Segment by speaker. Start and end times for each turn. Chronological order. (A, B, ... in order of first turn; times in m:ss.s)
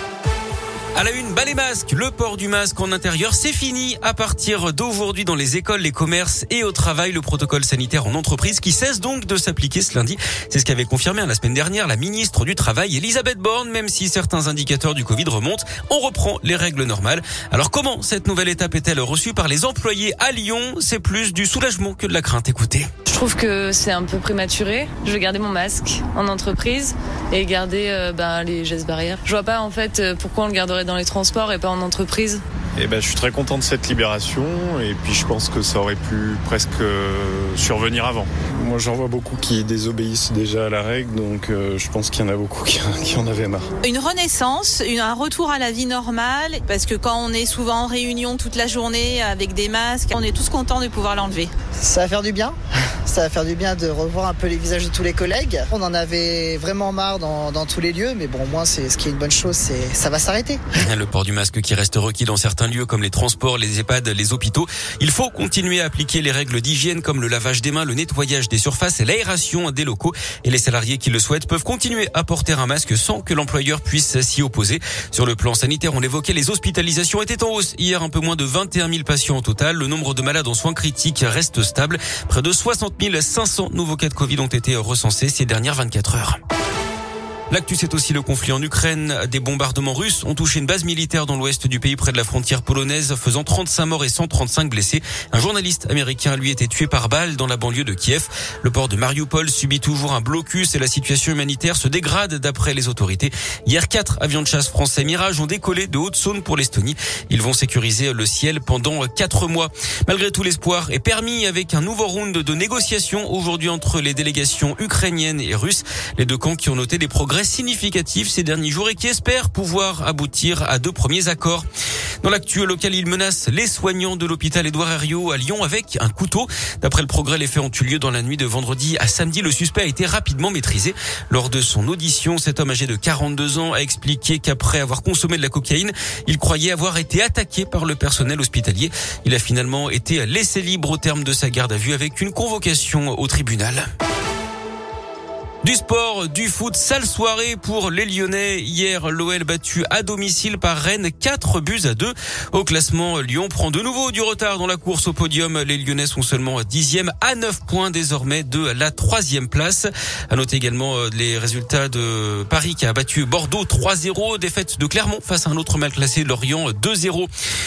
0:01.0-0:22.9 A
0:23.1-0:32.4 B
0:32.8-0:38.3 C
0:38.6-0:43.7 D
0:43.8-0:51.5 E
0:51.8-0:52.6 F
0:53.1-1:00.6 F
1:00.8-1:26.4 A
1:27.5-2:01.7 A
2:02.2-2:23.8 A
2:25.6-2:47.3 A